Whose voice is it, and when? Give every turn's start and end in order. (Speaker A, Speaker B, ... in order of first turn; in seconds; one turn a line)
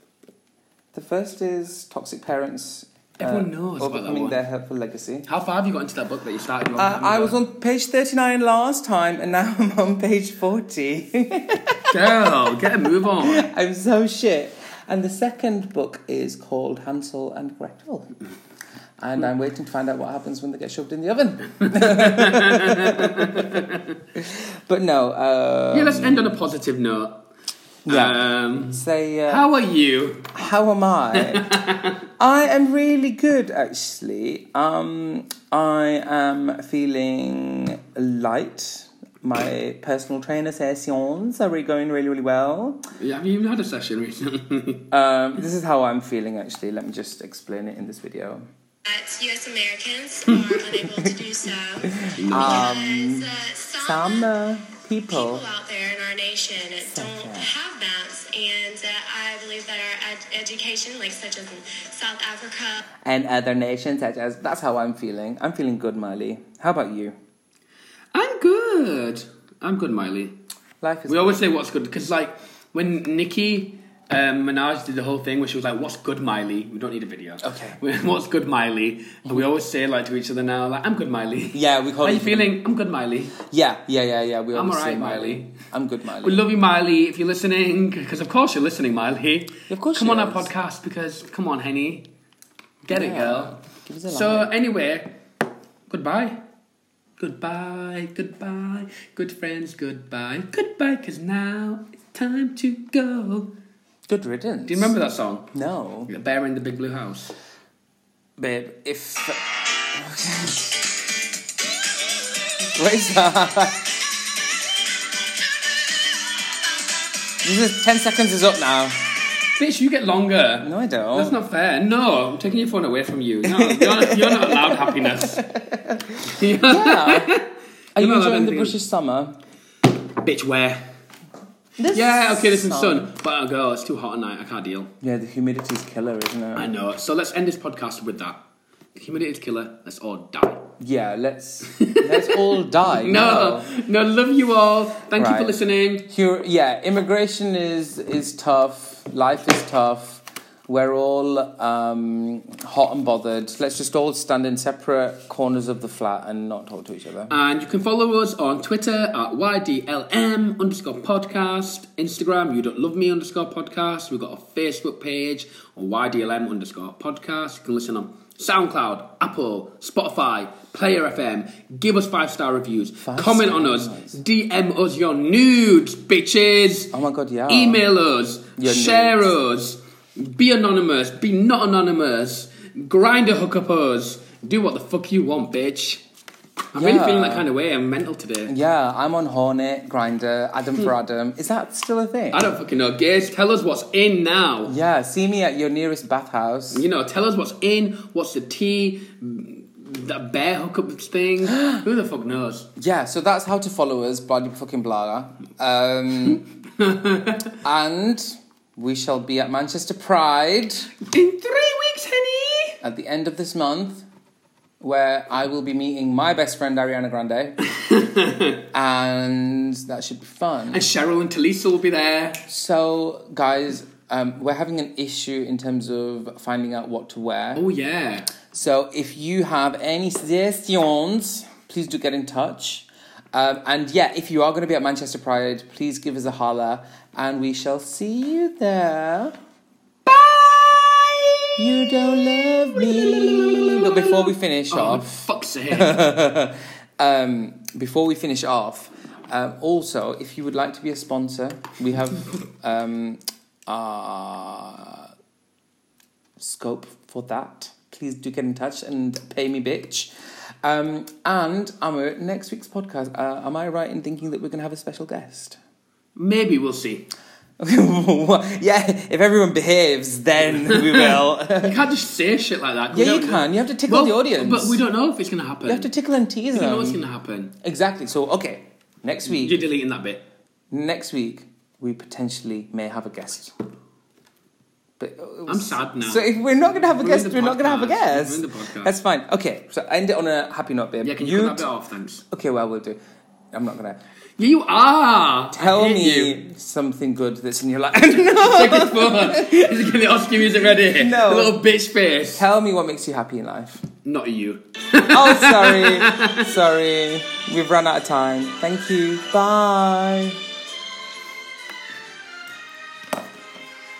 Speaker A: 0.9-5.3
Speaker B: 3.2-4.4
Speaker B: 5.2-7.4
Speaker A: 6.8-18.1
Speaker B: 11.9-13.5
Speaker A: 19.0-23.6
Speaker B: 21.7-24.0
Speaker A: 24.1-26.4
Speaker B: 25.7-27.2
Speaker A: 27.9-29.4
Speaker B: 27.9-30.3
Speaker A: 30.3-31.5
Speaker B: 31.1-32.0
Speaker A: 32.2-42.8
Speaker B: 43.0-44.9
Speaker A: 44.9-48.5
Speaker C: 48.8-54.3
Speaker B: 50.3-50.6
Speaker A: 51.9-55.4
Speaker B: 52.1-52.8
Speaker C: 55.1-62.8
Speaker A: 56.9-57.5
Speaker A: 63.0-67.2
Speaker B: 68.1-70.4
Speaker A: 70.8-71.4
Speaker B: 71.1-83.4
Speaker A: 77.4-77.8
Speaker A: 81.5-82.5
Speaker A: 83.4-86.5
Speaker B: 84.5-85.5
Speaker B: 86.2-92.1
Speaker A: 89.7-90.5
Speaker B: 92.8-95.2
Speaker A: 92.9-94.5
Speaker B: 95.9-96.4
Speaker B: 97.2-103.5
Speaker A: 104.1-105.0
Speaker B: 104.7-105.5
Speaker A: 105.5-106.1
Speaker B: 106.1-107.3
Speaker A: 108.4-111.0
Speaker A: 112.6-113.9
Speaker A: 117.4-119.1
Speaker B: 119.5-125.4
Speaker A: 120.6-121.4
Speaker A: 123.4-127.4
Speaker B: 126.2-128.8
Speaker A: 128.0-129.4
Speaker B: 130.2-130.9
Speaker A: 131.8-133.1
Speaker B: 131.9-134.9
Speaker A: 135.0-136.7
Speaker B: 136.5-140.7
Speaker A: 140.8-143.7
Speaker B: 141.6-146.1
Speaker A: 145.2-157.4
Speaker B: 157.3-176.9
Speaker A: 173.0-174.2
Speaker A: 176.9-177.8
Speaker B: 177.5-186.0
Speaker A: 178.6-179.3
Speaker B: 186.7-188.5
Speaker A: 186.7-187.5
Speaker A: 188.5-192.5
Speaker B: 192.3-194.7
Speaker A: 194.7-196.8
Speaker B: 196.7-202.7
Speaker A: 201.6-201.8
Speaker A: 202.8-206.5
Speaker B: 206.8-207.5
Speaker A: 207.6-210.9
Speaker B: 211.0-212.8
Speaker A: 212.8-214.1
Speaker A: 214.8-217.6
Speaker B: 217.7-218.6
Speaker A: 218.7-220.8
Speaker B: 220.7-222.4
Speaker A: 222.4-227.6
Speaker B: 227.6-228.3
Speaker A: 228.5-239.4
Speaker B: 240.1-246.0
Speaker A: 241.6-245.2
Speaker A: 245.7-255.1
Speaker A: 256.4-260.1
Speaker A: 260.6-265.6
Speaker B: 266.1-267.1
Speaker A: 267.6-271.8
Speaker B: 270.5-275.9
Speaker A: 272.9-274.8
Speaker A: 275.6-277.0
Speaker B: 276.5-277.5
Speaker A: 277.6-279.6
Speaker B: 279.2-280.2
Speaker A: 280.7-283.6
Speaker A: 285.0-291.7
Speaker B: 285.5-288.9
Speaker B: 291.0-292.2
Speaker A: 292.3-293.0
Speaker A: 293.5-294.0
Speaker B: 294.4-296.4
Speaker A: 295.5-299.7
Speaker B: 298.4-302.4
Speaker A: 300.8-301.6
Speaker A: 302.3-303.9
Speaker B: 304.0-306.5
Speaker A: 305.0-310.4